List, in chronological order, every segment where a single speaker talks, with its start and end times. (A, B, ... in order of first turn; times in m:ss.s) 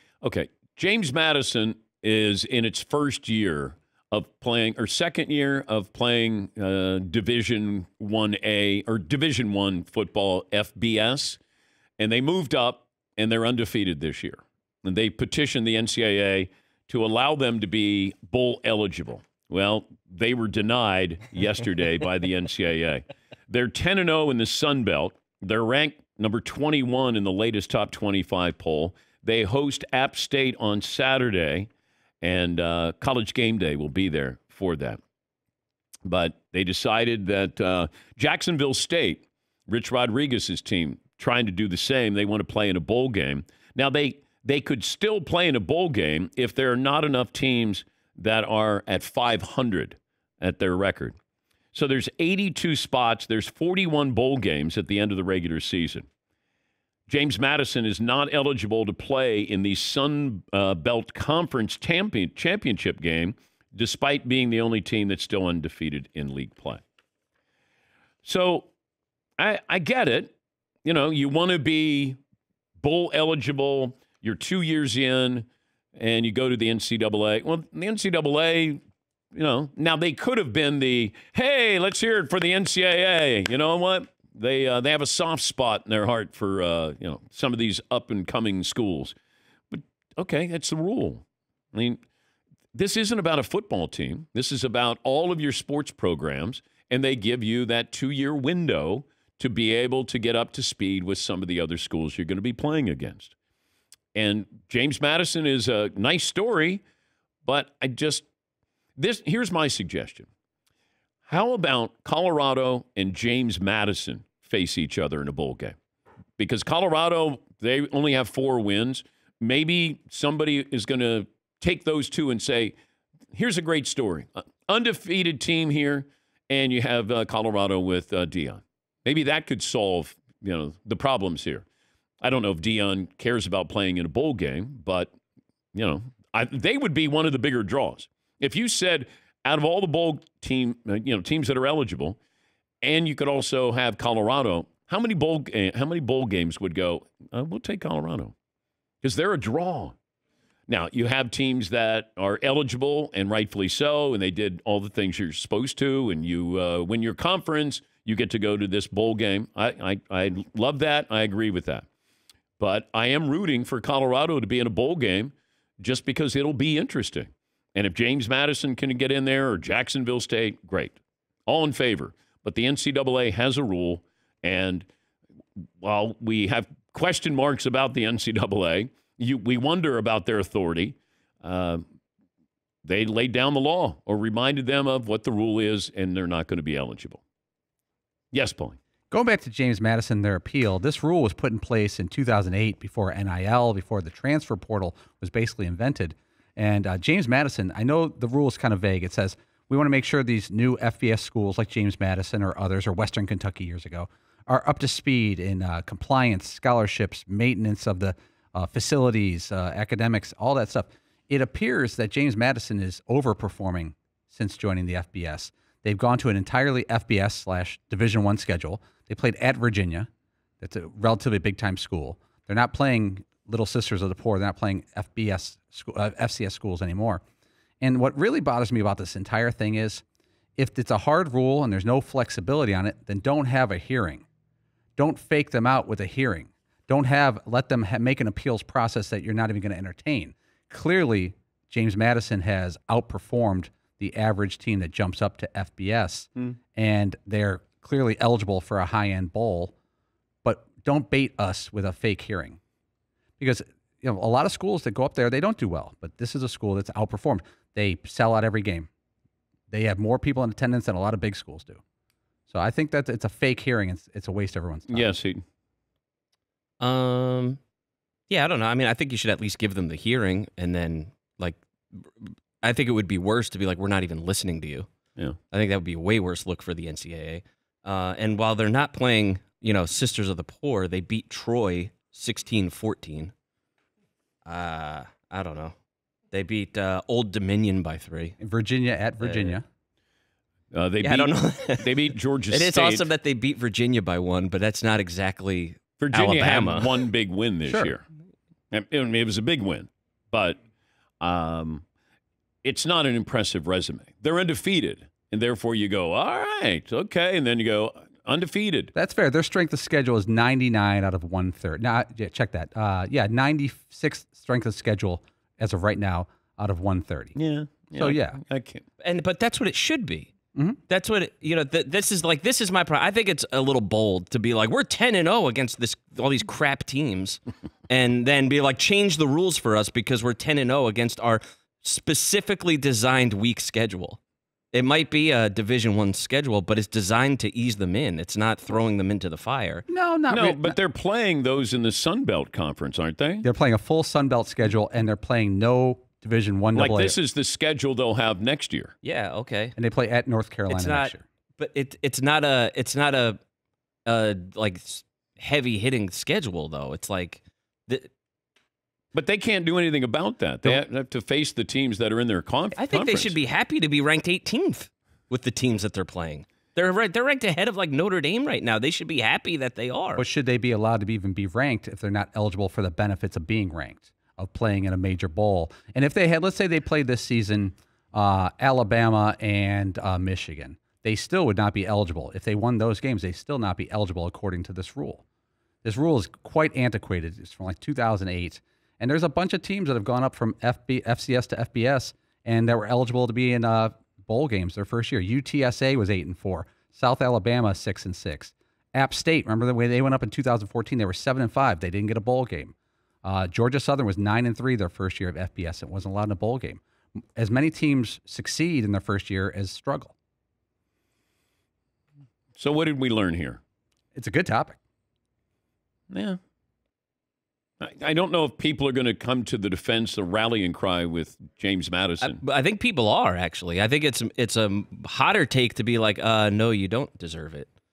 0:00.2-0:11.4 A
0:12.0-0:31.7 A
0:32.2-0:35.0 A
0:36.0-0:51.2 A
0:51.7-0:56.1 A
0:57.1-1:06.8 A
1:08.2-1:08.7 A
1:09.4-1:10.3 A
1:10.8-1:12.2 A
1:12.8-1:18.8 A
1:19.4-1:29.2 A
1:29.7-1:32.0 A
1:32.7-1:43.4 A
1:44.2-1:46.8 A
1:47.4-1:48.3 A
1:49.0-1:50.3 A
1:51.3-1:55.8 A
1:56.4-2:02.8 A
2:03.3-2:11.6 A
2:12.2-2:15.1 A
2:15.7-2:22.2 A
2:22.8-2:28.3 A
2:29.0-2:30.0 A
2:30.7-2:41.9 A
2:42.6-2:54.9 A
2:55.8-3:01.8 A
3:02.8-3:07.2 A
3:08.3-3:08.8 A
3:09.1-3:40.1 B
3:40.6-3:47.2 B
3:47.8-3:50.0 B
3:50.6-3:54.3 B
3:55.0-4:09.8 B
4:10.4-4:12.6 B
4:13.4-4:18.9 B
4:19.7-4:21.8 B
4:22.5-4:25.1 B
4:24.9-4:25.4 A
4:26.8-4:27.6 C
4:28.3-4:34.9 C
4:35.5-4:43.3 C
4:44.4-4:45.8 C
4:46.3-4:48.4 C
4:48.4-4:49.6 B
4:49.2-4:49.6 C
4:50.7-4:53.1 A
4:51.0-4:57.1 C
4:56.0-4:58.0 A
4:57.7-4:57.9 B
4:58.7-5:00.6 A
5:01.2-5:01.8 A
5:02.6-5:08.9 A
5:09.0-5:17.4 B
5:17.4-5:18.8 A
5:18.0-5:18.4 B
5:19.0-5:20.3 C
5:20.9-5:34.2 C
5:34.7-5:39.8 C
5:39.9-5:40.8 B
5:40.3-5:43.5 A
5:43.4-5:47.2 B
5:46.8-5:49.0 A
5:49.0-5:49.8 C
5:49.8-5:51.2 B
5:50.7-5:53.4 C
5:54.1-5:58.1 C
5:59.1-6:03.4 A
6:02.8-6:10.2 C
6:10.2-6:25.2 B
6:25.8-6:46.8 B
6:47.4-6:50.2 B
6:52.6-6:53.6 A
6:54.1-6:54.8 B
6:56.1-6:56.4 A
6:57.8-7:02.4 A
7:02.2-7:07.7 C